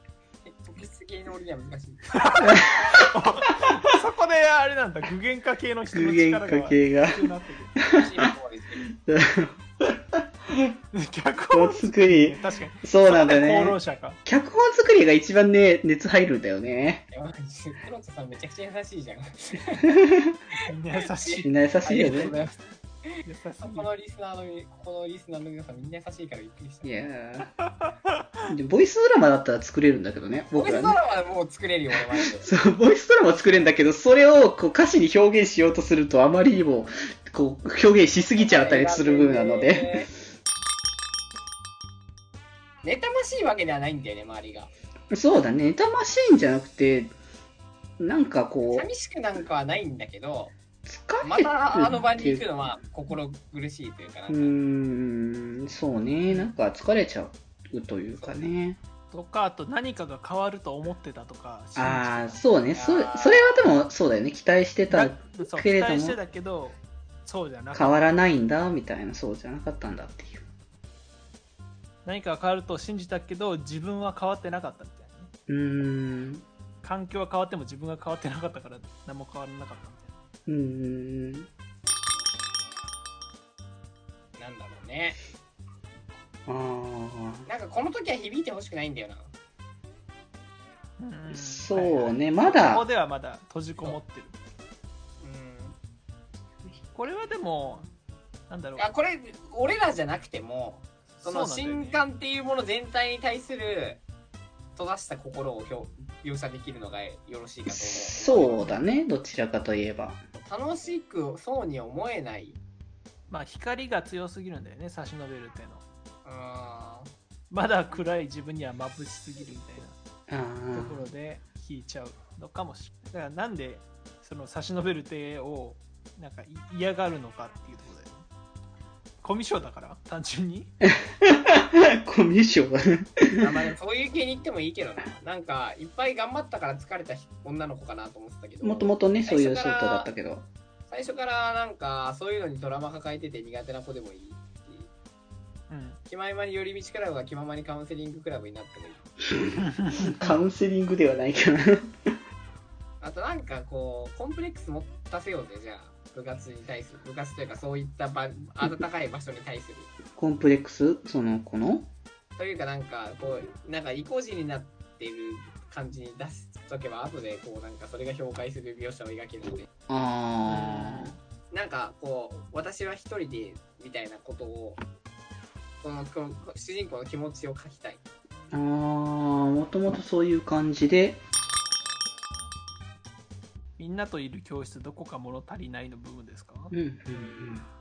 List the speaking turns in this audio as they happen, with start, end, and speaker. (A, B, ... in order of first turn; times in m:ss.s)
0:00.4-0:02.4 A
0:02.1-0:07.8 B
0:02.4-0:03.0 C
0:05.9-0:08.2 C
0:07.9-0:08.9 A
0:09.0-0:10.7 C
0:10.9-0:14.2 B
0:11.5-0:17.0 C
0:17.1-0:19.9 A
0:19.9-0:20.3 C
0:20.5-0:21.5 B
0:21.2-0:22.6 A
0:21.4-0:22.4 C
0:23.2-0:23.9 B
0:23.6-0:26.9 A
0:26.8-0:27.6 C
0:28.5-0:31.0 C
0:30.6-0:32.5 A
0:32.4-0:40.1 C
0:38.3-0:40.1 A
0:42.8-0:44.7 A
0:45.1-0:47.2 C
0:48.0-0:48.9 C
0:48.7-0:50.5 A
0:50.8-0:52.5 C
0:51.2-0:54.6 A
0:54.3-0:58.8 C
0:59.1-1:02.4 B
1:01.8-1:06.2 C
1:02.7-1:03.7 A
1:04.9-1:08.0 B
1:07.7-1:10.4 C
1:12.0-1:15.3 B
1:15.5-1:16.4 C
1:16.8-1:20.2 B
1:20.5-1:21.5 C
1:24.4-1:25.2 A
1:26.5-1:27.5 C
1:27.5-1:29.3 A
1:31.0-1:34.4 B
1:31.3-1:32.8 C
1:35.2-1:35.8 A
1:36.9-1:37.9 B
1:38.5-1:38.9 B
1:38.8-1:44.0 A
1:41.2-1:42.0 B
1:44.7-1:48.8 A
1:47.7-1:50.2 C
1:50.3-1:52.6 A
1:53.3-1:55.8 B
1:56.2-1:57.1 A
1:57.5-2:00.0 B
2:00.3-2:01.0 C
2:00.7-2:08.2 B
2:09.2-2:10.7 B
2:11.2-2:13.5 C
2:13.4-2:20.1 A
2:18.6-2:20.5 C
2:20.9-2:24.9 A
2:25.7-2:26.0 B
2:26.0-2:29.1 A
2:29.4-2:31.9 C
2:29.6-2:30.2 B
2:33.0-2:39.9 A
2:40.2-2:41.9 C
2:42.4-2:49.7 A
2:49.9-2:51.2 C
2:50.4-2:51.2 B
2:51.5-2:54.8 A
2:55.8-2:58.0 A
2:58.5-3:01.2 C
3:03.8-3:06.7 B
3:06.7-3:07.7 C
3:07.1-3:07.6 A